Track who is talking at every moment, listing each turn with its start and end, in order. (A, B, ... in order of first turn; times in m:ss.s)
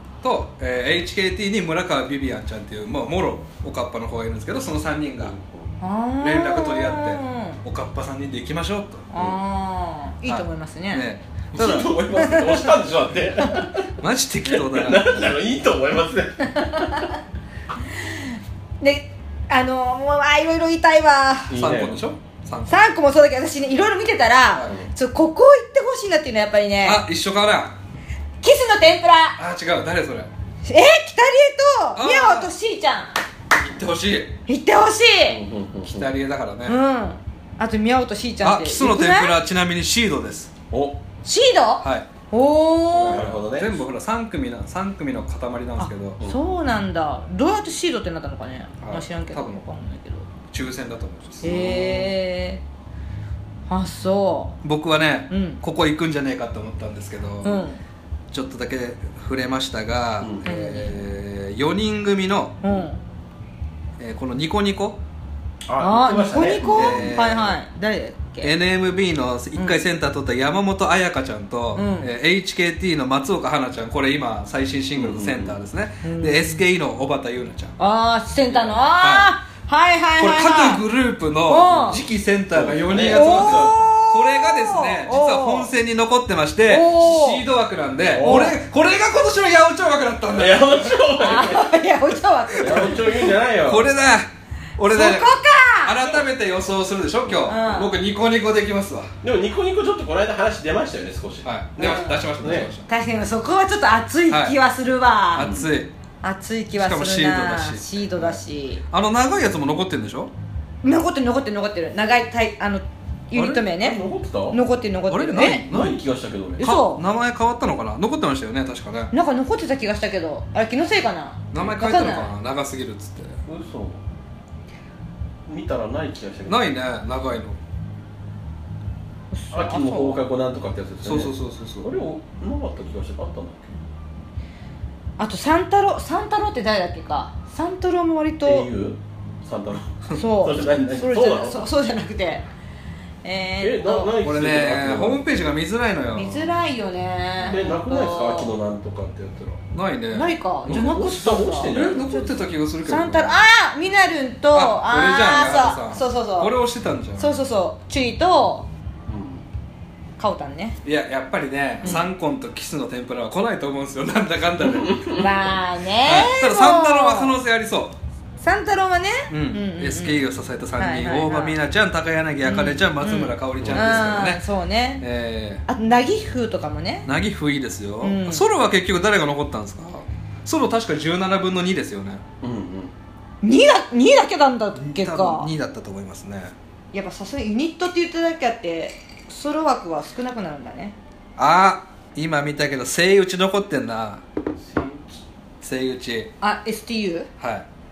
0:00.2-0:05.4 A
0:05.2-0:05.7 B
0:05.8-0:07.6 C
0:06.2-0:09.1 A
0:09.1-0:11.1 C
0:10.3-0:12.0 A
0:11.5-0:13.9 B
0:14.0-0:15.3 A
0:14.5-0:17.1 B
0:16.6-0:17.1 C
0:18.0-0:21.6 C
0:21.5-0:22.0 B
0:21.5-0:22.9 A
0:22.7-0:27.0 C
0:26.8-0:27.8 A
0:28.4-0:29.4 C
0:29.4-0:30.3 A
0:30.6-0:33.1 C
0:32.0-0:32.5 A
0:33.5-0:34.4 A
0:34.5-0:35.4 C
0:35.3-0:36.1 B
0:35.8-0:36.8 A
0:36.7-0:39.4 C
0:38.4-0:40.5 A
0:40.7-0:41.0 B
0:41.2-0:43.2 C
0:41.8-0:42.1 A
0:43.0-0:46.2 A
0:43.1-0:43.8 B
0:45.8-0:50.3 C
0:46.2-0:46.5 B
0:48.8-0:49.6 A
0:50.5-0:52.1 A
0:51.4-0:52.6 C
0:51.4-0:52.0 B
0:53.7-0:54.6 C
0:54.6-0:57.7 A
0:55.3-0:55.6 C
0:57.4-0:57.8 C
0:58.3-1:02.6 A
1:00.2-1:00.5 B
1:00.4-1:01.0 C
1:02.6-1:03.0 C
1:04.0-1:05.0 A
1:05.7-1:07.2 B
1:05.8-1:08.5 C
1:06.6-1:07.6 A
1:08.4-1:17.8 A
1:11.8-1:12.1 C
1:15.0-1:15.6 B
1:16.0-1:16.6 C
1:17.8-1:20.8 C
1:18.6-1:19.3 A
1:20.2-1:31.0 A
1:21.5-1:22.0 C
1:22.5-1:23.8 B
1:23.0-1:25.7 C
1:26.7-1:27.4 C
1:28.0-1:28.6 B
1:28.2-1:28.6 C
1:30.3-1:31.7 B
1:31.2-1:33.1 C
1:32.6-1:33.9 B
1:33.6-1:39.1 A
1:34.9-1:36.0 C
1:37.3-1:37.6 B
1:37.4-1:37.9 C
1:39.2-1:42.7 B
1:41.4-1:42.9 A
1:41.8-1:42.2 C
1:42.9-1:45.5 C
1:44.3-1:44.6 A
1:45.3-1:45.9 A
1:45.4-1:45.7 B
1:46.2-1:48.8 C
1:46.8-1:50.3 A
1:50.8-1:55.7 C
1:53.3-1:53.6 A
1:53.8-1:54.6 B
1:55.1-1:56.0 A
1:55.7-1:56.6 B
1:56.6-1:59.1 A
1:56.6-1:57.0 C
1:59.1-2:02.3 C
2:01.5-2:03.4 A
2:03.5-2:04.0 B
2:05.5-2:06.7 B
2:06.5-2:07.6 A
2:09.3-2:10.2 C
2:09.5-2:13.8 B
2:11.0-2:11.9 A
2:15.2-2:18.7 C
2:18.4-2:21.7 B
2:20.1-2:22.4 C
2:23.2-2:24.2 C
2:23.6-2:25.2 B
2:24.2-2:26.6 A
2:26.1-2:28.5 C
2:27.4-2:29.6 B
2:29.7-2:30.8 A
2:30.1-2:31.9 C
2:30.6-2:32.4 B
2:31.7-2:33.4 A
2:32.8-2:36.5 C
2:34.5-2:37.4 A
2:37.2-2:38.7 C
2:39.1-2:39.4 B
2:40.2-2:40.8 C
2:40.8-2:45.3 A
2:41.8-2:42.1 C
2:44.6-2:45.2 B
2:45.1-2:47.4 C
2:46.0-2:48.0 A
2:48.4-2:50.2 C
2:49.3-2:54.4 A
2:50.8-2:51.6 C
2:52.4-2:55.0 C
2:53.6-2:54.2 B
2:55.0-2:55.6 A
2:55.7-2:57.1 C
2:57.1-3:02.2 A
2:58.0-2:58.5 C
3:02.4-3:02.9 B
3:03.4-3:05.5 C
3:04.8-3:06.5 A
3:06.9-3:11.0 C
3:11.4-3:14.2 A
3:14.6-3:15.2 B
3:15.6-3:16.3 A
3:16.4-3:17.3 C
3:17.4-3:17.7 A